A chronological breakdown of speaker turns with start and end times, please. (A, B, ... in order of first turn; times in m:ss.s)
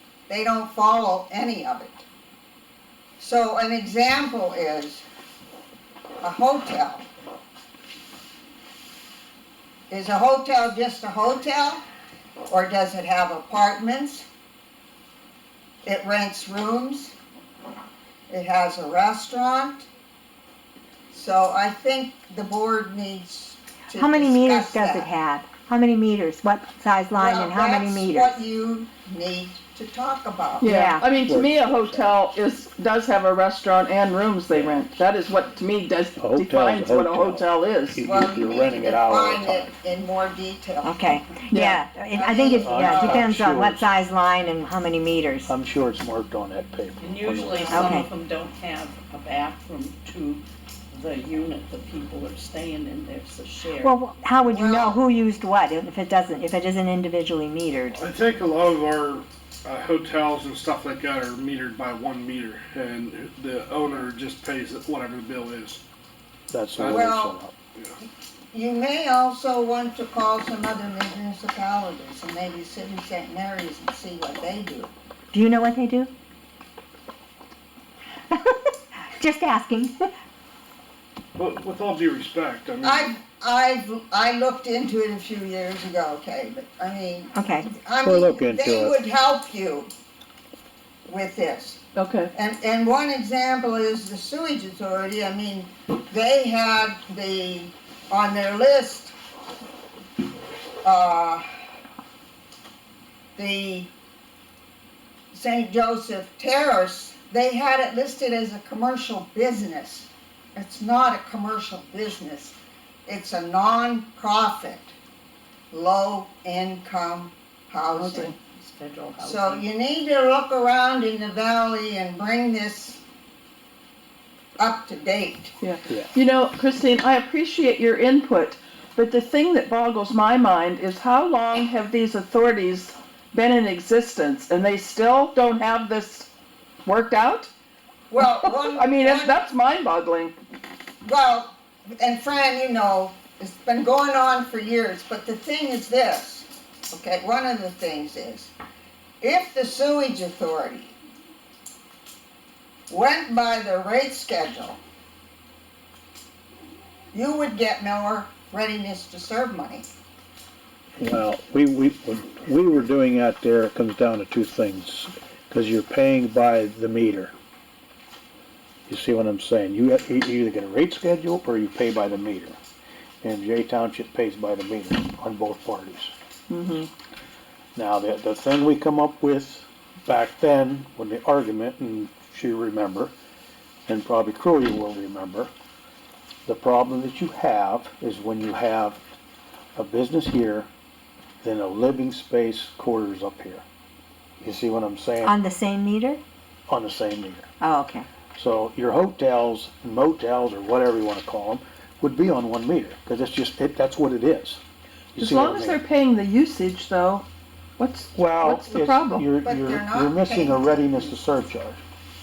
0:00.3-0:02.0 A
0:03.2-0:05.0 A
0:06.2-0:07.1 A
0:09.9-0:11.8 A
0:12.5-0:14.3 A
0:15.8-0:17.1 A
0:18.3-0:19.9 A
0:21.1-0:25.1 A
0:23.9-0:28.4 B
0:27.2-0:30.8 A
0:30.6-0:38.0 C
0:30.6-0:31.0 B
0:31.1-0:32.2 D
0:36.2-0:39.7 D
0:38.0-0:41.2 A
0:40.8-0:45.5 B
0:41.5-0:41.8 C
0:42.1-0:43.3 A
0:42.5-0:43.9 D
0:45.4-0:48.0 D
0:47.0-0:54.0 E
0:47.7-0:48.1 B
0:53.8-0:58.0 B
0:54.5-0:55.0 A
0:57.9-1:05.8 F
1:06.5-1:07.5 D
1:06.8-1:07.1 F
1:06.8-1:07.4 A
1:08.5-1:14.9 A
1:15.3-1:16.1 B
1:18.3-1:20.1 B
1:21.4-1:23.1 F
1:22.8-1:29.9 A
1:27.3-1:27.7 B
1:28.0-1:29.0 D
1:31.1-1:31.8 A
1:32.0-1:32.3 C
1:32.3-1:39.1 A
1:40.8-1:41.4 A
1:43.4-1:43.9 A
1:45.3-1:52.6 A
1:53.1-1:54.9 A
1:55.7-1:58.3 A
1:58.0-1:58.3 C
1:58.4-1:59.7 E
1:59.2-2:03.0 A
2:04.6-2:05.5 A
2:05.6-2:16.3 C
2:16.8-2:17.5 C
2:18.1-2:19.4 A
2:18.2-2:20.3 C
2:21.0-2:28.5 A
2:29.2-2:31.0 A
2:32.9-2:34.8 A
2:37.1-2:39.9 A
2:41.0-2:47.3 D
2:48.9-2:52.6 D
2:53.2-2:56.1 D
2:56.5-2:56.9 C
2:57.7-3:03.1 D
3:03.9-3:05.5 D
3:06.4-3:09.0 D
3:09.8-3:10.7 D
3:11.4-3:13.6 D
3:14.4-3:15.4 D
3:15.2-3:16.2 B
3:16.7-3:17.5 D
3:17.6-3:18.1 B
3:18.3-3:24.6 D
3:25.1-3:25.8 D
3:25.2-3:27.2 C
3:27.8-3:29.3 C
3:28.2-3:31.8 D
3:29.4-3:31.2 A